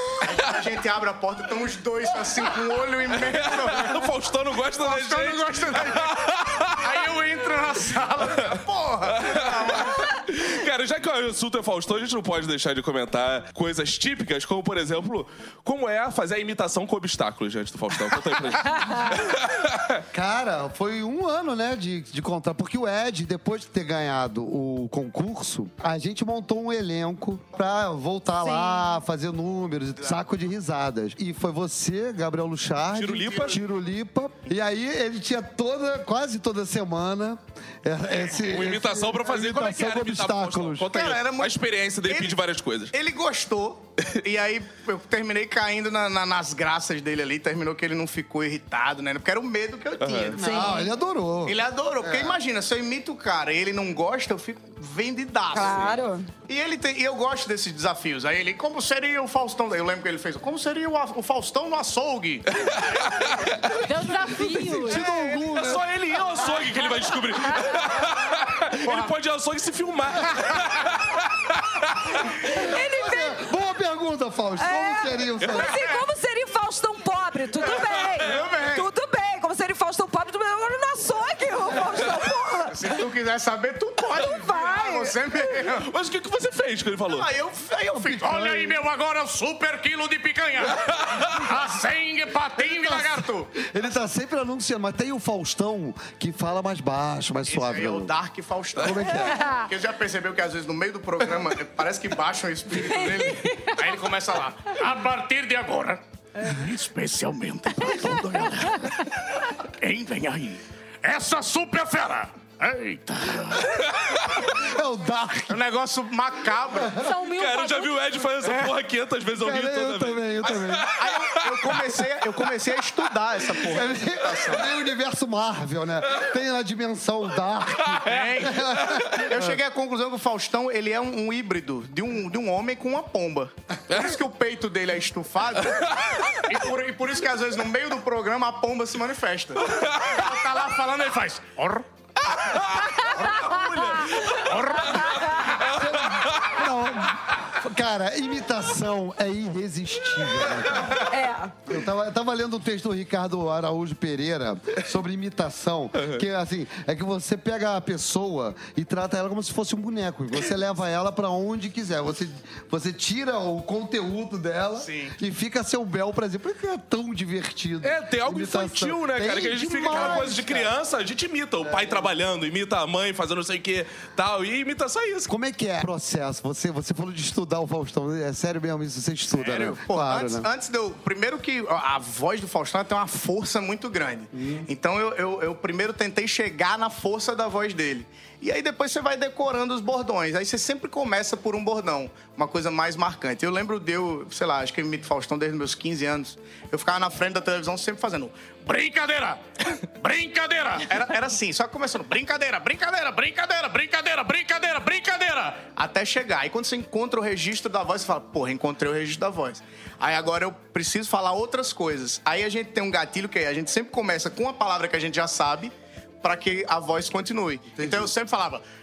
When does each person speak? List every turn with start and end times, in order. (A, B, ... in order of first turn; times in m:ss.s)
0:00.2-0:04.0 A
0:03.3-0:06.8 B
0:04.8-0:10.1 A
0:09.1-0:20.0 B
0:20.1-0:40.9 C
0:28.4-0:28.9 D
0:32.9-0:33.6 B
0:38.5-0:42.9 B
0:40.9-0:42.4 A
0:42.9-0:50.8 A
0:50.0-0:50.4 B
0:50.4-0:52.4 C
0:50.4-0:50.9 D
0:51.4-1:02.4 A
0:55.5-0:56.3 D
1:02.5-1:03.7 B
1:03.8-1:05.1 E
1:04.4-1:05.9 C
1:05.0-1:11.9 B
1:08.8-1:09.1 A
1:12.5-1:15.8 C
1:12.6-1:13.4 D
1:14.6-1:23.0 D
1:18.1-1:18.9 A
1:22.7-1:25.9 A
1:24.1-1:25.2 D
1:25.7-1:27.3 B
1:27.1-1:28.7 A
1:28.1-1:33.4 F
1:28.2-1:28.7 C
1:32.6-1:33.4 A
1:33.6-1:38.1 C
1:37.5-1:43.7 A
1:38.8-1:39.4 C
1:43.8-1:47.3 F
1:46.7-1:48.8 A
1:49.8-1:50.2 F
1:49.8-1:50.6 A
1:51.0-1:53.6 F
1:53.9-1:54.4 B
1:54.4-1:55.6 C
1:55.5-1:57.0 A
1:56.8-1:57.1 C
1:57.0-1:58.0 E
1:57.2-2:01.9 B
1:59.4-2:00.9 C
2:00.9-2:04.7 A
2:03.6-2:09.6 C
2:08.0-2:19.7 A
2:20.0-2:21.8 F
2:22.5-2:24.4 B
2:24.4-2:25.4 F
2:25.8-2:31.0 C
2:25.8-2:26.5 B
2:31.0-2:31.5 D
2:31.7-2:50.7 C
2:36.0-2:36.2 B
2:44.8-2:45.1 A
2:47.8-2:55.3 B
2:51.6-2:52.1 C
2:55.3-3:00.5 C
2:59.3-3:18.4 A
3:04.3-3:04.7 C
3:18.6-3:20.9 F
3:20.8-3:23.0 A
3:22.9-3:25.7 F
3:25.7-3:38.6 A
3:37.8-3:38.1 C